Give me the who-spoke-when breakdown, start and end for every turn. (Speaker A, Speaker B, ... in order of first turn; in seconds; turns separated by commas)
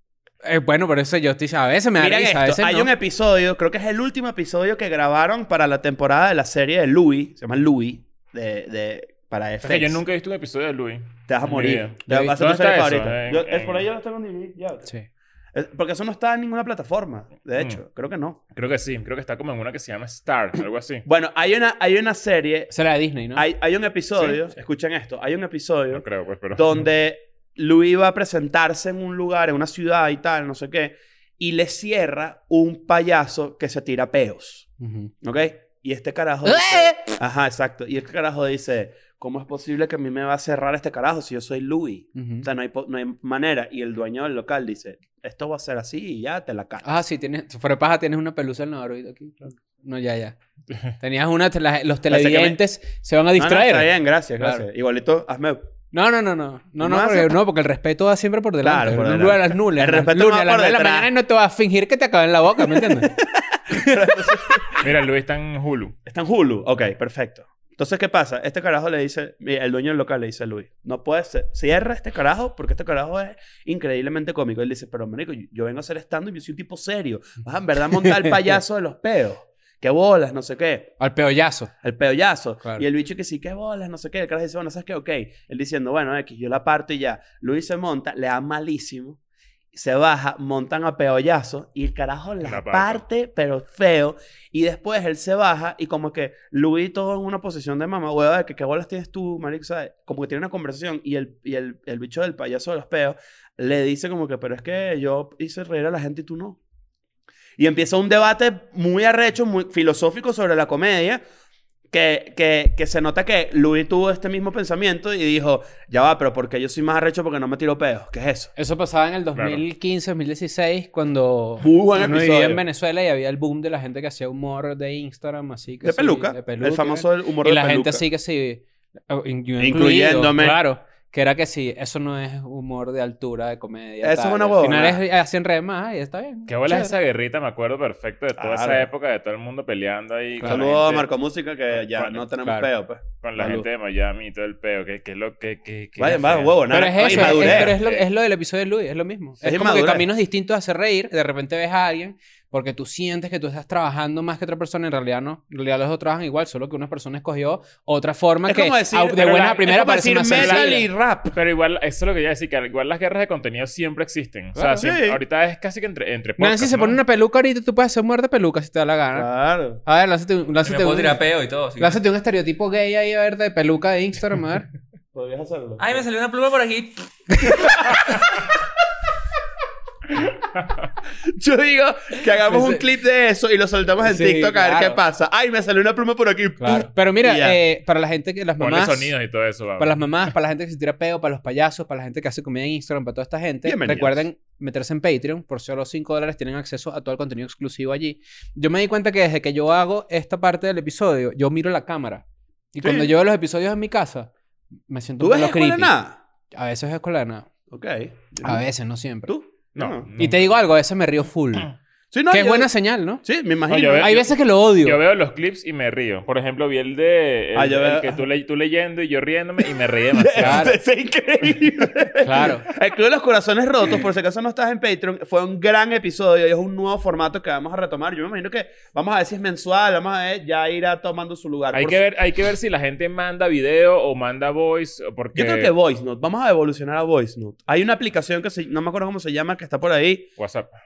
Speaker A: 0.4-2.9, Speaker B: 2.0-10.0, Speaker C: 9.6-13.9, Speaker B: 11.3-14.9, Speaker A: 12.1-12.3, Speaker B: 15.5-18.4, Speaker C: 18.5-21.0, Speaker B: 21.1-22.7, Speaker A: 22.7-23.5, Speaker B: 23.4-34.7, Speaker C: 25.9-26.8, Speaker A: 34.8-35.1, Speaker B: 35.2-46.9, Speaker A: 36.5-37.2, Speaker A: 42.1-42.5, Speaker A: 46.8-50.4, Speaker A: 51.0-53.9, Speaker B: 52.1-52.6, Speaker B: 53.4-55.6, Speaker A: 55.9-63.2, Speaker B: 56.8-57.4, Speaker B: 58.6-61.1, Speaker B: 62.7-64.9, Speaker A: 63.7-64.6, Speaker C: 64.8-66.0, Speaker B: 66.1-81.0, Speaker A: 78.0-78.3, Speaker A: 81.0-81.7, Speaker B: 81.8-89.2, Speaker B: 89.7-106.6, Speaker C: 92.4-93.0, Speaker B: 107.6-111.2, Speaker B: 111.9-118.5, Speaker A: 118.6-136.9, Speaker C: 119.4-119.6, Speaker B: 121.6-122.6, Speaker B: 125.8-128.0, Speaker B: 129.6-130.6, Speaker B: 134.0-135.0, Speaker C: 136.5-141.1, Speaker B: 138.4-138.9, Speaker B: 140.4-143.7, Speaker C: 141.8-142.2, Speaker C: 143.2-148.1, Speaker B: 146.0-147.8, Speaker A: 146.7-160.8, Speaker B: 149.4-150.1, Speaker B: 158.5-161.4, Speaker C: 160.3-167.0, Speaker A: 164.6-164.9, Speaker B: 164.8-165.2, Speaker A: 166.4-169.3, Speaker B: 169.1-169.8, Speaker A: 169.8-171.2, Speaker D: 170.6-172.0, Speaker A: 171.8-174.7, Speaker B: 175.1-176.0, Speaker D: 175.8-178.1, Speaker B: 177.8-178.1, Speaker B: 181.2-187.6, Speaker A: 182.4-182.8, Speaker A: 184.0-185.0, Speaker A: 186.6-189.1, Speaker C: 188.6-190.3, Speaker A: 189.8-204.3, Speaker B: 193.7-194.3, Speaker B: 202.8-203.1, Speaker A: 204.9-205.9, Speaker B: 205.2-206.2, Speaker A: 206.5-207.5, Speaker B: 207.7-208.6, Speaker A: 208.4-209.3, Speaker B: 209.3-210.1, Speaker C: 209.8-210.6, Speaker A: 210.2-211.7, Speaker B: 212.1-212.7, Speaker A: 212.3-213.2, Speaker B: 213.2-214.2, Speaker C: 213.7-220.8, Speaker A: 214.0-215.0, Speaker B: 217.6-218.2, Speaker B: 220.1-232.0, Speaker A: 220.4-220.8, Speaker A: 222.2-222.7, Speaker C: 231.7-235.7, Speaker B: 235.3-240.3, Speaker C: 240.4-240.7